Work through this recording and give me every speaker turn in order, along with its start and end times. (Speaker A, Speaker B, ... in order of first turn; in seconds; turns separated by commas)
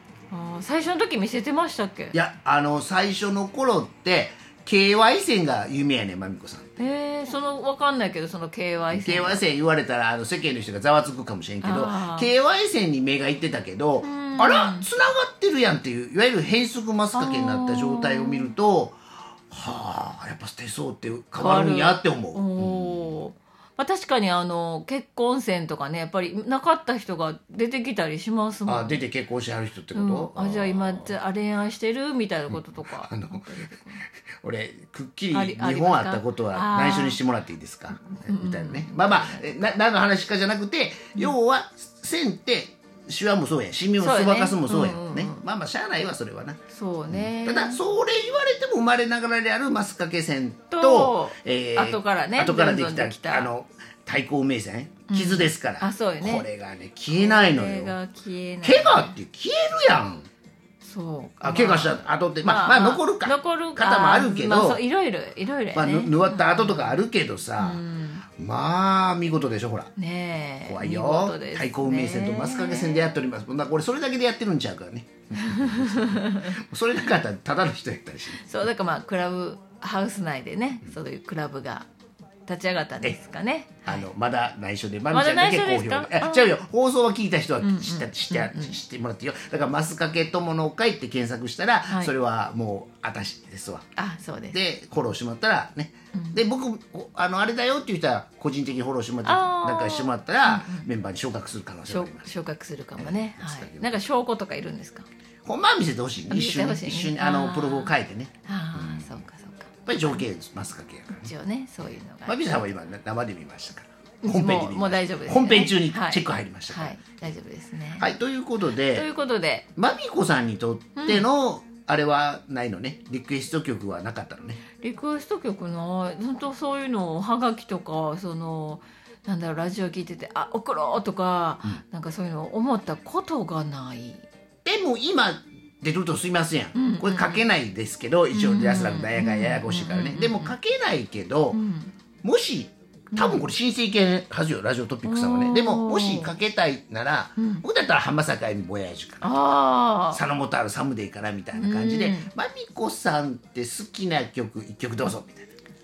Speaker A: 0.3-2.1, Speaker B: 2.1-6.7, Speaker A: 6.8-9.4, Speaker B: 8.9-23.2, Speaker A: 11.6-12.3, Speaker A: 14.0-14.9, Speaker A: 17.1-18.5, Speaker A: 21.4-29.0, Speaker B: 28.7-31.1, Speaker A: 29.9-34.0, Speaker B: 32.5-33.5, Speaker B: 34.4-46.6, Speaker A: 35.3-37.2, Speaker A: 38.0-39.8, Speaker A: 44.0-45.4, Speaker A: 46.7-47.8, Speaker B: 47.1-58.0, Speaker A: 50.7-53.5, Speaker A: 55.1-56.5, Speaker A: 57.1-59.2, Speaker B: 58.6-60.3, Speaker A: 60.8-67.0, Speaker B: 61.4-64.8, Speaker B: 65.7-67.8, Speaker A: 67.6-68.2, Speaker B: 68.4-69.9, Speaker A: 70.0-73.2, Speaker B: 70.6-78.5, Speaker A: 75.3-76.6, Speaker A: 78.3-81.9, Speaker A: 82.5-84.1, Speaker B: 83.8-93.8, Speaker A: 85.1-86.6, Speaker A: 87.6-88.8, Speaker A: 94.0-94.6, Speaker B: 94.5-102.3, Speaker A: 96.1-96.4, Speaker A: 99.2-100.9, Speaker A: 101.9-105.0, Speaker B: 103.0-104.0, Speaker B: 105.4-109.2, Speaker A: 106.3-107.9, Speaker A: 108.4-110.2, Speaker B: 109.8-111.3, Speaker A: 111.1-112.4, Speaker B: 112.2-117.2, Speaker A: 114.2-118.1, Speaker B: 118.0-119.1, Speaker A: 118.7-119.7, Speaker B: 119.8-124.6, Speaker A: 121.0-121.2, Speaker A: 124.8-134.2, Speaker B: 134.6-141.6, Speaker A: 136.7-137.4, Speaker A: 138.3-140.5, Speaker A: 141.5-141.9, Speaker B: 142.2-149.3, Speaker A: 143.1-143.4, Speaker A: 145.0-146.3, Speaker A: 147.4-147.6, Speaker A: 149.2-150.2, Speaker B: 150.1-155.5, Speaker A: 151.5-152.3